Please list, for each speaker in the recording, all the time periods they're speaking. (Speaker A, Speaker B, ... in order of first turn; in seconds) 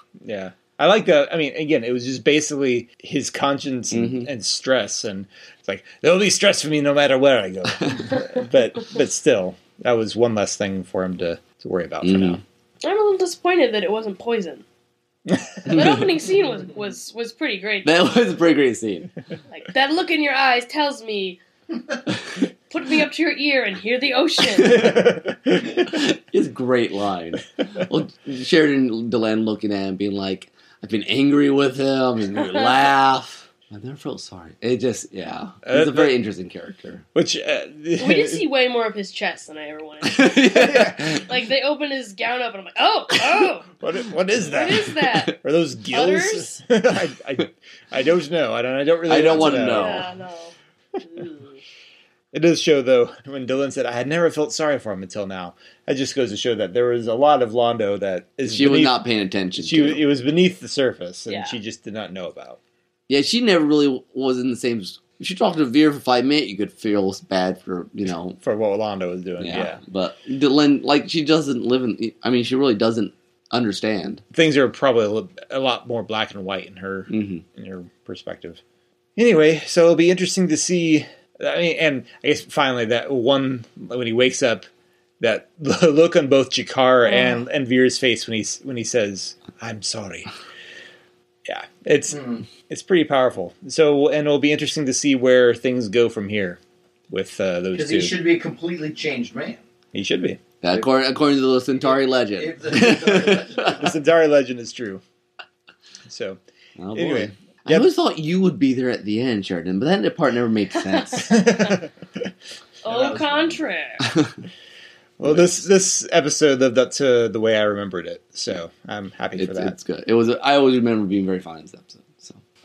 Speaker A: 0.2-12.4, 15.3-15.9, 24.4-26.0, 35.6-36.1, 37.1-38.5, 43.8-50.1, 52.3-59.0, 59.6-62.6, 68.4-69.8, 74.3-78.6, 79.2-84.6, 85.2-90.3, 91.5-98.2, 99.9-100.4, 103.8-105.0, 106.0-106.4, 106.9-107.9, 111.2-112.3, 112.9-113.6, 115.2-119.7
Speaker B: 3.9-4.3, 12.0-12.4, 15.7-16.0, 17.8-19.1, 25.9-37.0, 40.0-41.2, 49.1-50.1, 58.5-60.0, 63.1-68.4, 69.4-74.2, 77.1-77.4, 100.6-103.8, 106.8-111.3, 115.3-115.5, 119.4-122.4
Speaker C: 12.8-14.6, 15.7-17.9, 19.5-21.4, 22.7-25.0, 32.4-32.7, 38.0-43.7, 44.4-45.3, 45.9-46.6, 49.2-51.6, 61.3-61.6, 87.0-87.5, 110.7-111.8, 112.8-114.0
Speaker D: 92.1-92.5, 97.7-99.6, 101.8-103.9